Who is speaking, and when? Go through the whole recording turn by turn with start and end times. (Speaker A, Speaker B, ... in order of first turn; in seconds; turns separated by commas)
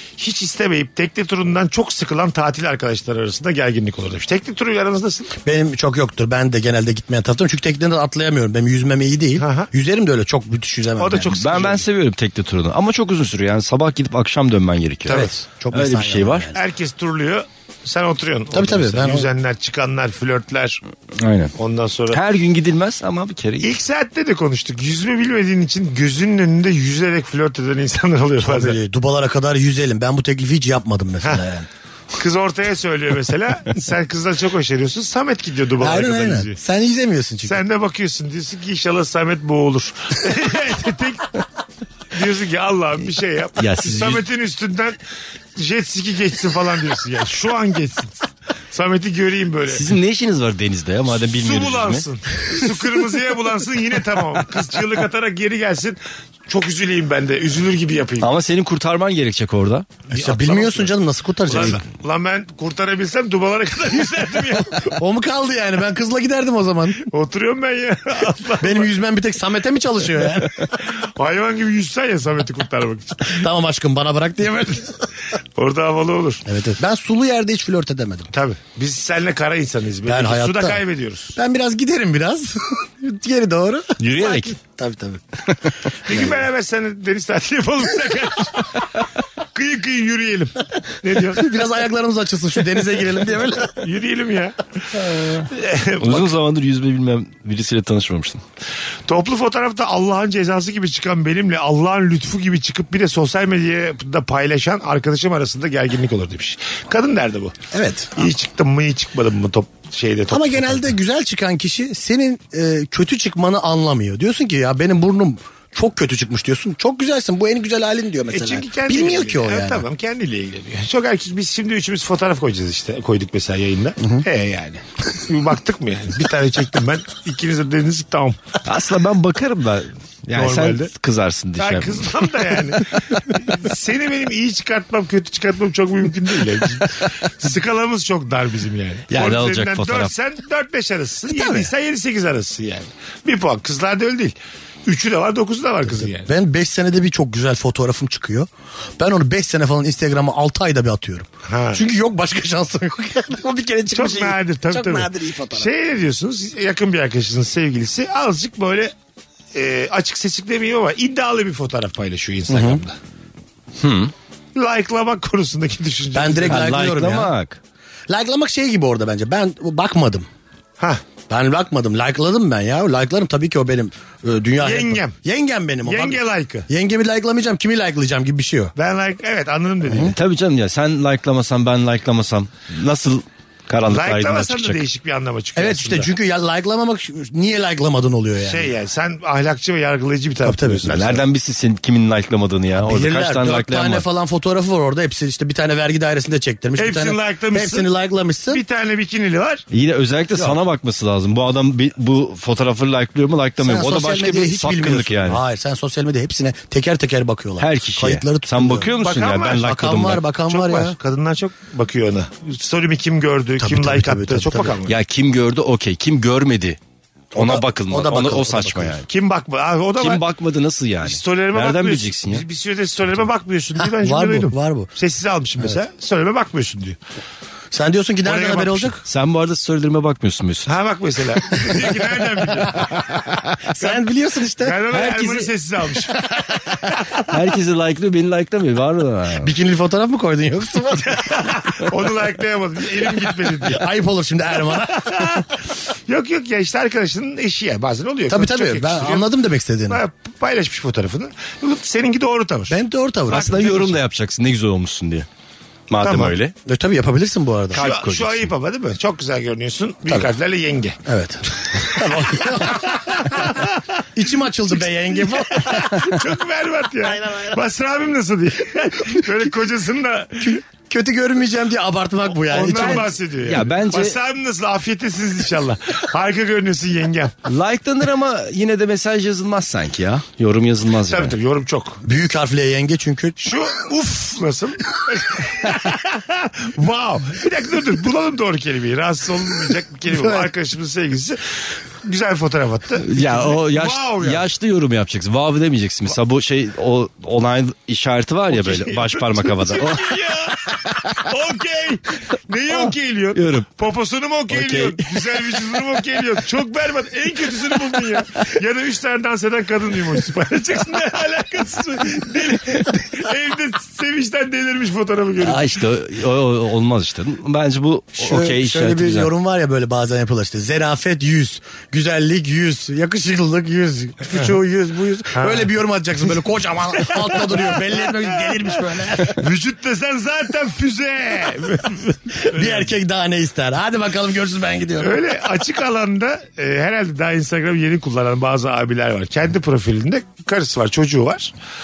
Speaker A: 0.2-5.3, Speaker B: 5.4-11.3, Speaker A: 9.4-9.7, Speaker A: 11.0-11.8, Speaker C: 11.3-16.5, Speaker A: 15.1-15.3, Speaker B: 15.1-16.6, Speaker A: 16.5-20.8, Speaker B: 18.5-19.3, Speaker C: 21.1-21.5, Speaker A: 21.6-22.2, Speaker C: 22.1-23.7, Speaker A: 23.6-28.8, Speaker B: 28.4-31.7, Speaker A: 32.1-36.6, Speaker B: 35.8-37.6, Speaker A: 37.4-41.4, Speaker A: 42.1-45.0, Speaker C: 43.6-44.2, Speaker A: 45.5-49.9, Speaker C: 49.7-52.0, Speaker A: 51.2-58.3, Speaker C: 58.2-59.9, Speaker A: 60.1-60.9, Speaker B: 60.1-61.8, Speaker A: 61.5-64.9, Speaker B: 64.9-67.0, Speaker A: 67.0-68.9, Speaker B: 68.6-70.7, Speaker A: 70.7-73.4, Speaker B: 73.3-75.0, Speaker A: 75.6-76.4, Speaker B: 76.5-78.3, Speaker A: 78.3-81.3, Speaker B: 80.1-80.8, Speaker B: 81.3-85.4, Speaker C: 84.0-84.5, Speaker A: 86.0-91.6, Speaker B: 86.1-86.4, Speaker B: 91.3-93.8, Speaker A: 93.8-94.7, Speaker A: 95.4-96.3, Speaker C: 96.0-98.4, Speaker A: 99.1-107.6, Speaker B: 107.7-108.2, Speaker A: 108.2-110.9, Speaker B: 110.3-119.8, Speaker A: 118.3-128.4, Speaker C: 128.6-132.1, Speaker A: 130.3-130.9, Speaker A: 131.6-146.3, Speaker C: 139.1-140.1, Speaker B: 141.3-141.7, Speaker B: 145.9-155.7, Speaker A: 151.5-151.8, Speaker A: 153.9-158.9, Speaker A: 159.5-162.9, Speaker B: 162.5-162.8, Speaker C: 163.8-164.1, Speaker A: 164.5-166.7, Speaker B: 166.1-167.3, Speaker C: 166.5-167.6, Speaker B: 168.1-170.3, Speaker B: 171.3-178.7, Speaker A: 174.6-175.2, Speaker A: 175.8-176.7, Speaker A: 178.8-180.2, Speaker B: 179.9-180.1, Speaker C: 180.0-184.8, Speaker A: 183.9-186.1, Speaker B: 185.6-188.7, Speaker A: 188.4-191.2, Speaker B: 190.4-191.0, Speaker C: 190.9-194.0, Speaker B: 192.8-198.6, Speaker A: 196.8-197.9, Speaker A: 198.5-199.6, Speaker C: 199.7-205.4, Speaker B: 203.6-208.9, Speaker C: 207.6-210.2, Speaker A: 209.0-209.7, Speaker B: 209.5-210.9, Speaker A: 210.5-215.0, Speaker B: 213.6-214.8, Speaker C: 214.8-216.8, Speaker B: 217.3-219.0, Speaker C: 217.3-219.1, Speaker A: 219.1-220.2, Speaker C: 220.0-222.4, Speaker A: 221.0-227.0, Speaker B: 223.9-224.9, Speaker B: 227.7-229.0, Speaker A: 228.2-229.0, Speaker C: 229.0-230.7, Speaker A: 230.7-234.0, Speaker B: 232.7-234.8, Speaker A: 234.6-237.3, Speaker C: 234.9-235.5, Speaker C: 237.2-239.5, Speaker B: 239.4-241.4, Speaker A: 241.1-243.8, Speaker B: 243.6-245.4, Speaker A: 244.7-249.3, Speaker B: 248.3-250.0, Speaker A: 249.9-252.8, Speaker B: 252.7-253.9, Speaker C: 253.3-255.3, Speaker C: 255.9-256.5, Speaker A: 256.0-256.4, Speaker B: 256.6-257.9, Speaker C: 257.7-258.5, Speaker A: 257.7-261.0, Speaker B: 261.1-263.6, Speaker A: 261.6-264.0, Speaker B: 264.1-266.1, Speaker A: 264.7-270.6, Speaker B: 267.1-267.5, Speaker B: 270.4-273.1, Speaker A: 272.5-277.3, Speaker C: 272.6-274.1, Speaker C: 277.4-281.3, Speaker A: 281.1-282.0, Speaker B: 282.0-283.4, Speaker A: 283.4-294.5, Speaker B: 290.1-290.5, Speaker C: 293.0-300.1, Speaker A: 298.5-315.7, Speaker C: 300.9-301.2, Speaker C: 303.3-303.7, Speaker C: 304.5-305.4, Speaker C: 315.4-319.3, Speaker B: 318.2-329.4, Speaker A: 325.3-325.7, Speaker A: 327.0-332.9, Speaker B: 332.4-335.2, Speaker A: 335.0-341.5